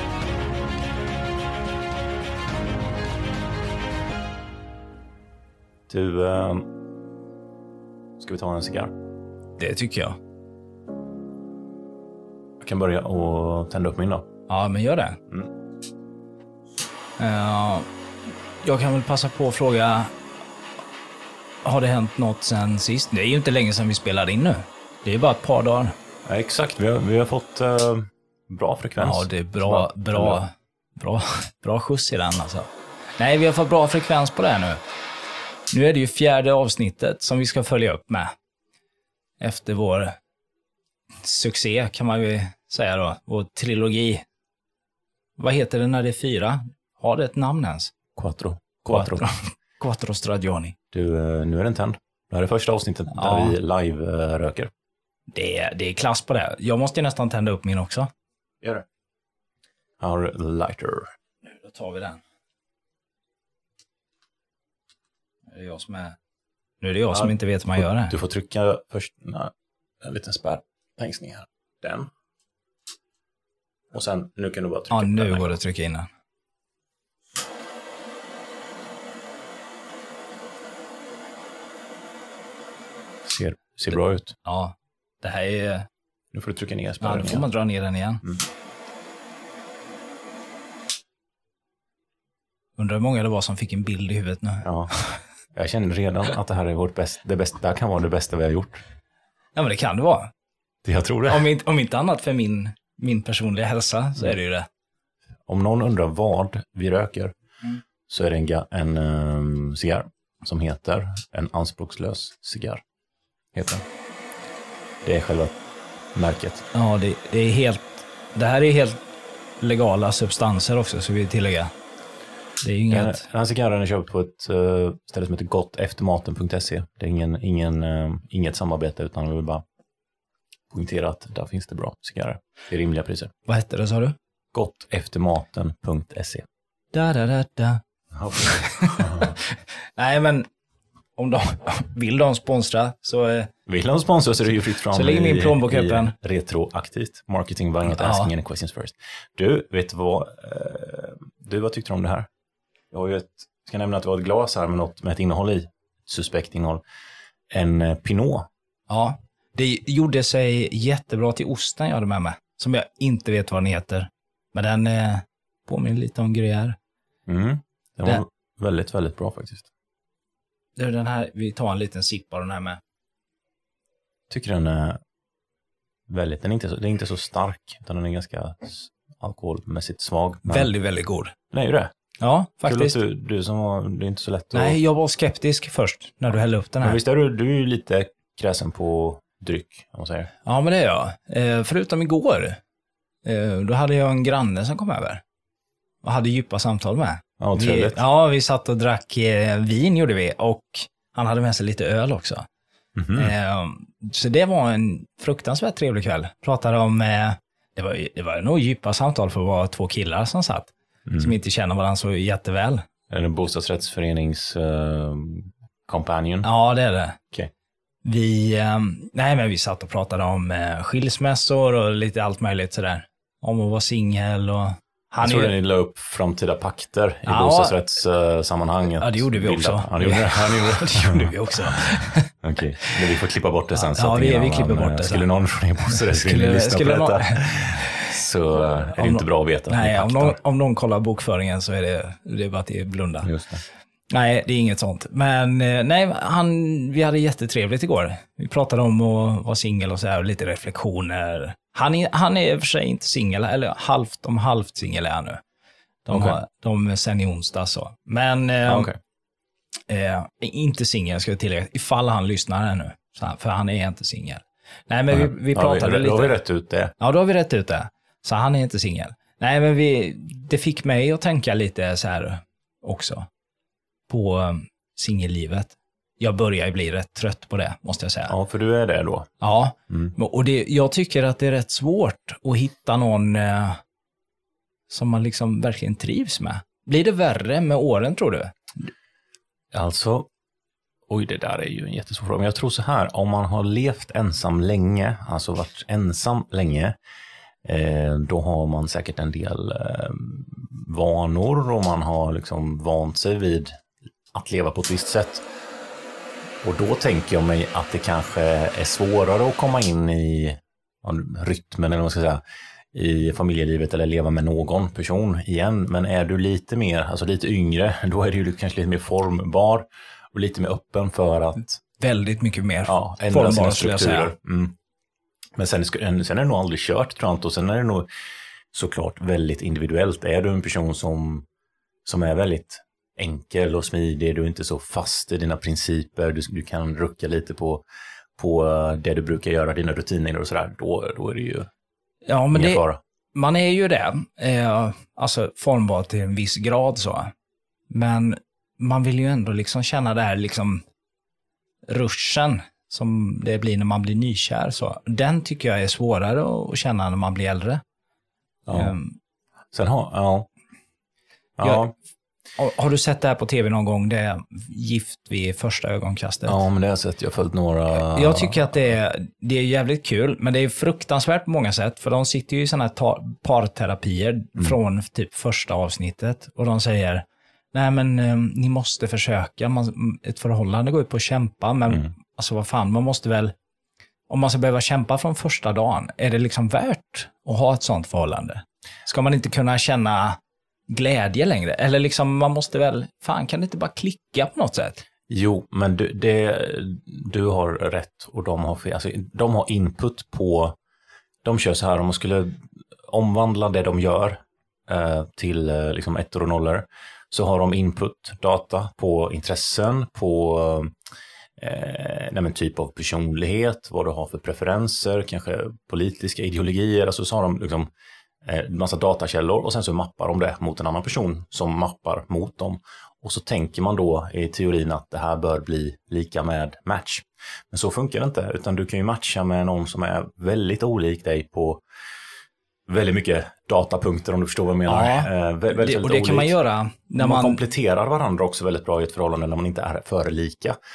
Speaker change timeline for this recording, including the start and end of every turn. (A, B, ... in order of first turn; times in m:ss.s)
0:05.9-0:06.8 A
0:08.2-0:08.9 A
0:09.6-0:10.2 B
0:12.6-0:14.2 A
0:14.5-0:15.2 B
0:17.2-0:17.9 B
0:18.6-0:20.1 B
0:21.6-0:25.9 B
0:26.2-0:30.4 A
0:29.0-0:34.8 B
0:35.7-0:38.3 B
0:39.4-0:40.2 B
0:41.2-0:44.2 B
0:45.4-0:47.9 B
0:48.1-0:49.3 A
0:48.9-0:50.7 B
0:50.9-0:54.7 A
0:53.1-0:53.6 B
0:55.3-0:58.1 B
1:00.0-1:01.1 A
1:01.5-1:02.2 B
1:05.5-1:06.2 B
1:06.8-1:08.1 B
1:07.1-1:12.1 A
1:13.9-1:15.6 A
1:14.9-1:16.1 B
1:23.2-1:24.4 A
1:24.4-1:25.9 B
1:26.3-1:27.4 A
1:27.0-1:28.2 B
1:32.8-1:35.2 B
1:34.6-1:34.9 A
1:35.5-1:38.8 A
1:39.6-1:40.3 B
1:40.8-1:41.5 A
1:41.3-1:44.7 B
1:45.5-1:47.3 A
1:48.1-1:52.8 A
1:53.5-1:53.8 A
1:55.0-1:55.6 A
1:56.1-1:56.6 A
1:56.7-1:59.0 B
1:59.6-2:01.7 B
2:02.6-2:03.2 B
2:02.9-2:09.6 A
2:10.7-2:13.3 A
2:13.4-2:14.2 B
2:14.5-2:16.4 A
2:16.9-2:17.8 B
2:18.1-2:19.4 A
2:18.3-2:20.5 B
2:21.2-2:23.5 B
2:23.7-2:32.3 A
2:24.9-2:26.1 B
2:27.9-2:28.3 B
2:32.9-2:36.8 A
2:37.5-2:38.5 A
2:38.9-2:46.8 B
2:47.3-2:49.7 A
2:50.8-2:52.8 B
2:54.3-2:55.0 A
2:56.1-3:00.7 A
3:00.5-3:01.3 B
3:01.5-3:01.9 A
3:02.2-3:03.0 B
3:02.6-3:04.8 A
3:04.5-3:07.0 B
3:06.8-3:10.3 A
3:10.4-3:12.6 B
3:13.2-3:15.2 B
3:16.0-3:22.5 B
3:17.4-3:18.0 A
3:23.0-3:23.3 A
3:23.1-3:32.9 B
3:31.0-3:31.3 A
3:33.1-3:36.5 A
3:36.4-3:37.2 B
3:38.0-3:45.5 B
3:45.2-4:00.4 A
3:47.2-3:47.8 B
3:49.0-3:52.3 B
3:53.7-3:55.2 B
3:55.9-3:58.1 B
3:59.0-4:03.3 B
4:03.2-4:03.6 A
4:04.1-4:15.4 B
4:16.0-4:18.9 B
4:16.1-4:16.4 A
4:18.7-4:19.0 A
4:19.9-4:26.4 B
4:25.1-4:26.9 A
4:27.0-4:33.3 B
4:34.1-4:38.3 B
4:38.3-4:39.3 A
4:39.4-4:43.8 B
4:39.9-4:40.1 A
4:44.9-4:48.9 B
4:49.7-4:50.3 A
4:51.1-4:56.9 A
4:57.6-5:03.7 A
5:04.3-5:05.4 A
5:06.6-5:12.4 A
5:12.9-5:21.8 A
5:22.0-5:24.3 B
5:22.8-5:24.8 A
5:25.6-5:28.1 A
5:28.7-5:31.4 A
5:32.0-5:37.8 A
5:38.4-5:41.7 A
5:42.3-5:47.3 B
5:42.5-5:43.0 A
5:47.9-5:50.8 B
5:51.9-5:57.8 B
5:58.7-5:58.9 A
5:58.7-5:59.2 B
5:59.7-6:00.5 A
6:01.6-6:01.9 A
6:02.6-6:06.6 B
6:06.4-6:08.7 A
6:07.9-6:23.5 B
6:24.3-6:30.4 B
6:30.9-6:35.0 B
6:35.3-6:40.7 A
6:41.4-6:50.9 A
6:51.6-6:57.9 A
6:58.4-7:11.8 A
7:12.9-7:16.5 A
7:14.9-7:17.6 B
7:17.2-7:20.8 A